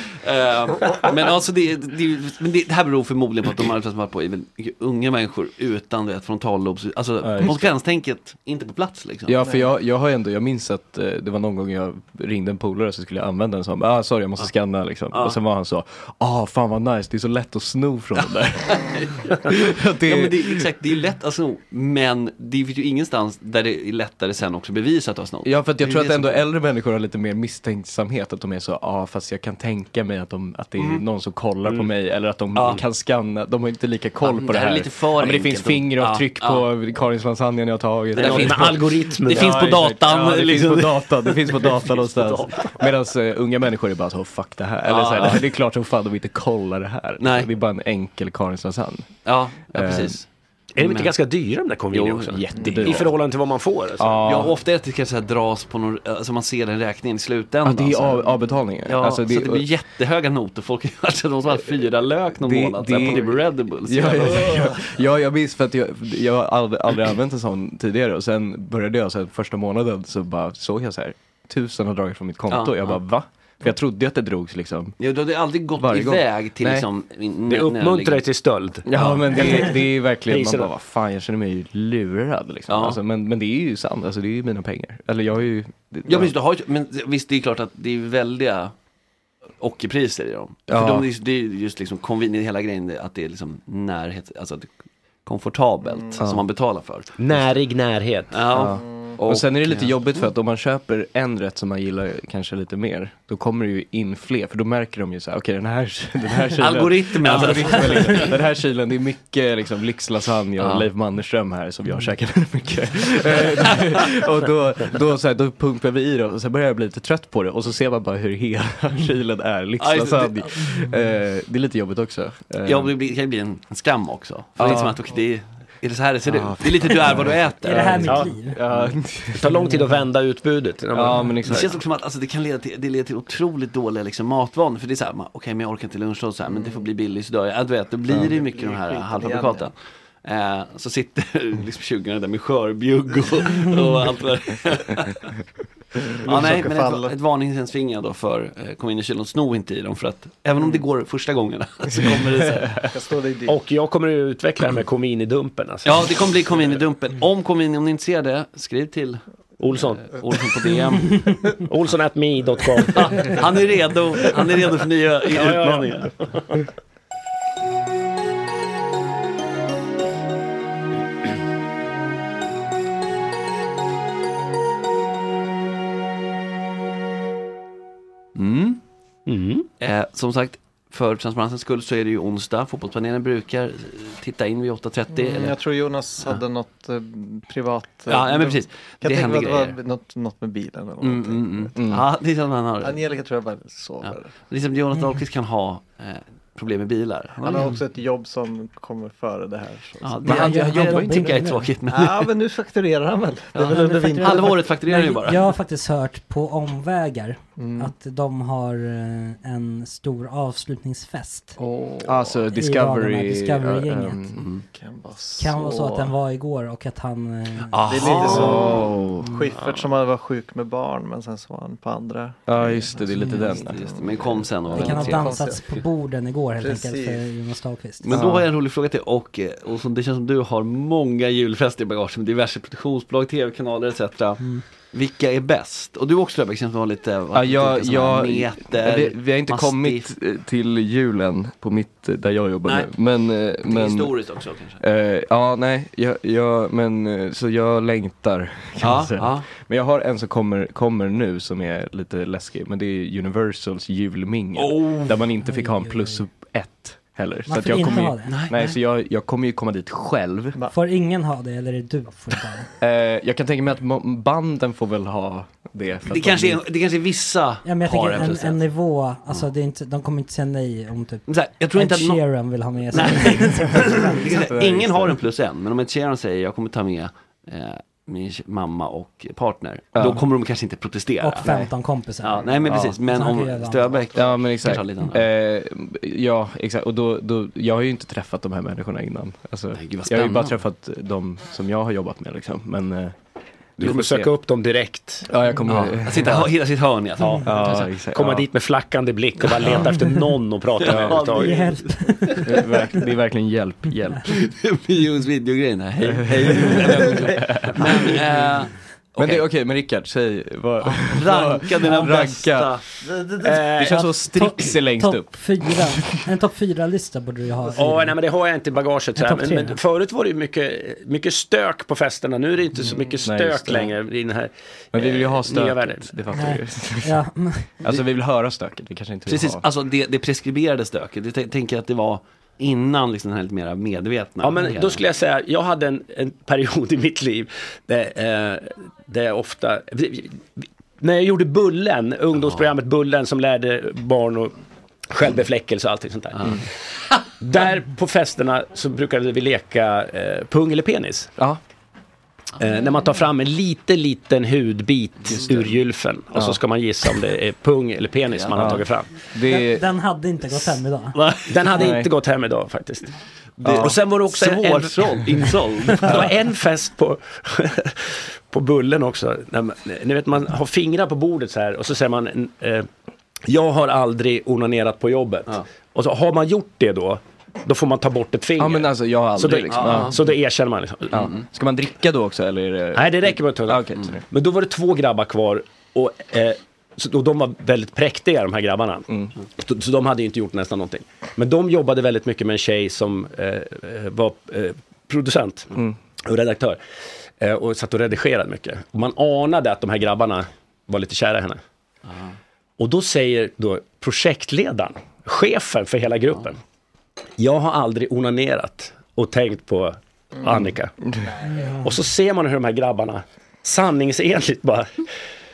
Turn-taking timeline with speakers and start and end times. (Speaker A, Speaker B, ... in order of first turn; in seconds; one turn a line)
Speaker A: 0.2-9.4
Speaker B: 7.2-7.7
Speaker B: 9.3-18.8
Speaker A: 18.2-19.3
Speaker B: 19.4-20.6
Speaker A: 20.0-26.4
Speaker B: 25.4-49.1
Speaker A: 30.8-31.0
Speaker A: 32.5-32.8
Speaker A: 34.2-36.6
Speaker C: 38.1-39.7
Speaker A: 38.1-41.7
Speaker C: 41.9-42.7
Speaker A: 44.9-45.4
Speaker A: 47.2-47.5
Speaker A: 49.2-50.2
Speaker B: 49.7-50.2
Speaker C: 50.8-54.2
Speaker A: 50.8-51.1
Speaker A: 51.9-53.0
Speaker B: 52.4-53.2
Speaker D: 52.6-52.9
Speaker B: 54.0-54.5
Speaker A: 54.2-58.3
Speaker B: 57.6-59.7
Speaker A: 58.9-64.6
Speaker B: 62.4-74.9
Speaker A: 72.5-73.0
Speaker A: 75.0-78.2
Speaker B: 75.8-76.9
Speaker C: 77.5-80.7
Speaker B: 78.8-86.3
Speaker A: 82.7-83.0
Speaker A: 86.0-88.7
Speaker A: 89.6-94.7
Speaker B: 90.7-91.1
Speaker A: 95.2-97.5
Speaker D: 95.8-96.2
Speaker B: 96.2-96.4
Speaker C: 97.2-98.5
Speaker A: 98.3-100.3
Speaker B: 98.5-122.9
Speaker A: 106.6-108.4
Speaker A: 110.6-110.8
Speaker A: 113.3-114.1
Speaker A: 119.8-120.5
Speaker A: 122.6-128.2
Speaker B: 124.6-125.0
Speaker B: 126.2-129.4
Speaker E: 127.6-128.6
Speaker C: 128.0-128.4
Speaker A: 128.7-129.0
Speaker C: 129.3-131.7
Speaker E: 129.6-130.0
Speaker B: 130.9-131.7
Speaker A: 131.4-145.3
Speaker D: 136.5-136.8
Speaker D: 138.1-139.7
Speaker D: 146.2-147.1
Speaker A: 146.2-152.7
Speaker D: 150.6-150.8
Speaker D: 152.9-153.6
Speaker C: 153.5-156.0
Speaker A: 155.8-159.2
Speaker C: 159.6-160.1
Speaker A: 159.7-161.3
Speaker C: 161.7-163.3
Speaker A: 163.0-166.1
Speaker C: 165.3-166.6
Speaker A: 178.3-178.8
Speaker C: 179.3-179.7
Speaker A: 179.8-185.6
Speaker D: 185.1-191.7
Speaker A: 188.1-189.8
Speaker A: 191.0-193.0
Speaker B: 191.8-192.1
Speaker D: 192.8-194.3
Speaker A: 194.0-197.7
Speaker D: 197.4-200.5
Speaker A: 200.0-202.3
Speaker B: 200.2-201.4
Speaker E: 200.2-201.7
Speaker D: 201.9-204.6
Speaker A: 203.5-205.4
Speaker E: 203.6-211.6
Speaker D: 207.6-207.9
Speaker D: 211.6-212.4
Speaker B: 212.0-214.5
Speaker E: 212.5-214.2
Speaker D: 214.7-216.1
Speaker E: 215.4-217.8
Speaker A: 217.7-218.8
Speaker D: 217.8-225.8
Speaker B: 218.0-219.3
Speaker B: 222.4-224.0
Speaker E: 223.1-223.6
Speaker A: 223.8-225.3
Speaker E: 224.7-228.2
Speaker D: 226.6-227.2
Speaker A: 228.0-240.1
Speaker B: 228.1-228.5
Speaker B: 237.3-244.1
Speaker A: 243.6-244.8
Speaker B: 244.8-260.6
Speaker A: 248.8-249.5
Speaker A: 254.6-255.1
Speaker E: 255.4-256.2
Speaker E: 257.5-258.3
Speaker A: 258.2-258.8
Speaker E: 260.7-262.7
Speaker B: 262.8-266.6
Speaker A: 266.1-268.6
Speaker E: 267.6-274.2
Speaker A: 271.3-272.2
Speaker A: 272.9-281.5
Speaker B: 274.2-275.2
Speaker B: 279.9-280.2
Speaker E: 281.2-284.0
Speaker A: 282.2-285.2
Speaker B: 282.7-282.9
Speaker B: 284.1-293.1
Speaker A: 289.8-290.6
Speaker B: 293.8-294.3
Speaker C: 293.8-295.3
Speaker B: 295.3-296.5
Speaker A: 295.7-297.9
Speaker B: 297.4-298.5
Speaker C: 298.1-301.6
Speaker B: 299.6-299.9
Speaker A: 300.8-302.7
Speaker B: 300.8-301.2
Speaker E: 301.4-302.6
Speaker B: 302.4-304.2
Speaker A: 304.3-309.4
Speaker B: 306.0-308.5
Speaker B: 309.2-312.8
Speaker A: 310.8-312.8
Speaker D: 313.0-313.6
Speaker C: 313.4-314.1
Speaker B: 313.8-315.4
Speaker E: 314.2-318.1
Speaker D: 317.6-318.1
Speaker C: 317.8-326.2
Speaker E: 319.1-319.8
Speaker D: 322.9-323.1
Speaker B: 323.2-323.9
Speaker B: 324.9-327.2
Speaker E: 326.3-327.7
Speaker B: 327.8-329.6
Speaker A: 329.3-335.0
Speaker C: 334.4-344.5
Speaker C: 345.1-346.6
Speaker C: 347.4-351.3
Speaker C: 352.6-359.1
Speaker B: 356.3-356.6
Speaker A: 358.3-358.8
Speaker B: 358.5-359.9
Speaker E: 359.5-361.2
Speaker A: 361.1-361.5
Speaker C: 361.5-363.1
Speaker B: 361.7-362.1
Speaker B: 363.6-364.0
Speaker C: 363.6-372.9
Speaker A: 363.8-366.3
Speaker C: 373.5-381.3
Speaker B: 378.6-380.3
Speaker A: 379.7-380.1
Speaker B: 381.1-384.2
Speaker C: 382.9-396.8
Speaker C: 397.4-401.6
Speaker C: 402.8-406.6
Speaker C: 407.4-410.9
Speaker E: 411.5-411.9
Speaker C: 411.8-415.0